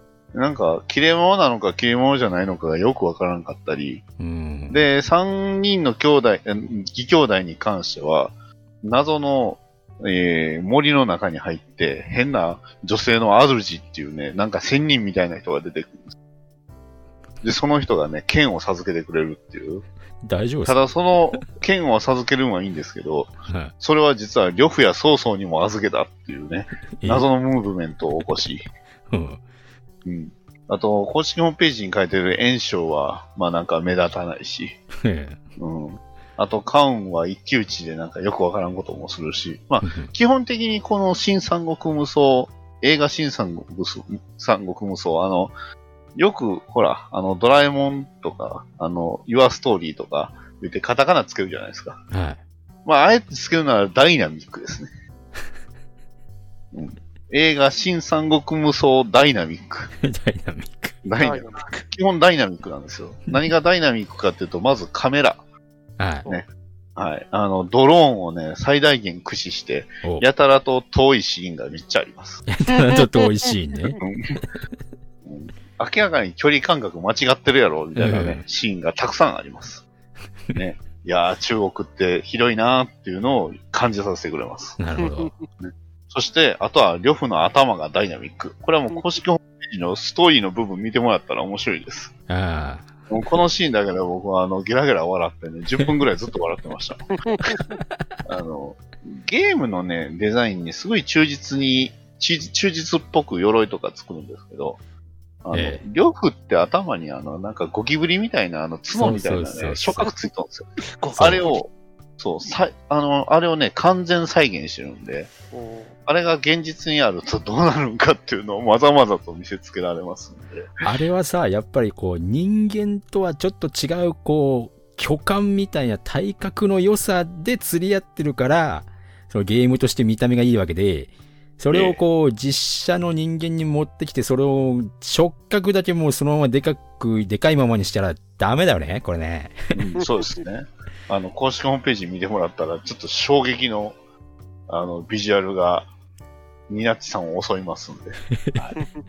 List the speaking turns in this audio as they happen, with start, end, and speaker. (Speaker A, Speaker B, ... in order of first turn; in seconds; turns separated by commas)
Speaker A: 0.3-4.0, Speaker B: 4.2-4.9, Speaker A: 4.7-16.0, Speaker A: 17.4-19.8, Speaker B: 20.2-20.8, Speaker A: 20.6-28.7, Speaker B: 23.5-23.7, Speaker B: 27.0-27.3, Speaker B: 29.1-29.4, Speaker A: 30.0-34.8, Speaker B: 35.0-35.4, Speaker A: 35.6-45.5, Speaker B: 39.8-40.1, Speaker A: 46.1-52.0, Speaker B: 52.1-52.4, Speaker A: 52.8-54.9, Speaker A: 56.7-59.9, Speaker B: 60.0-61.0, Speaker A: 61.0-65.4, Speaker C: 61.2-61.9, Speaker B: 66.0-66.3, Speaker A: 66.2-72.4, Speaker B: 72.5-74.0, Speaker C: 72.7-73.1, Speaker A: 74.0-74.4, Speaker A: 75.2-79.8, Speaker B: 78.0-78.4, Speaker A: 80.5-84.8, Speaker B: 84.8-85.3, Speaker C: 85.0-85.3, Speaker A: 85.6-92.1, Speaker B: 92.3-92.9, Speaker A: 93.1-97.2, Speaker C: 97.2-97.6, Speaker A: 98.2-104.8, Speaker A: 105.4-115.3, Speaker B: 105.5-105.8, Speaker B: 108.9-110.1, Speaker C: 111.0-111.6, Speaker C: 115.5-115.9, Speaker A: 116.0-120.7, Speaker B: 120.8-139.7, Speaker A: 131.7-132.0, Speaker A: 139.7-143.9, Speaker A: 144.7-145.9, Speaker A: 146.7-148.8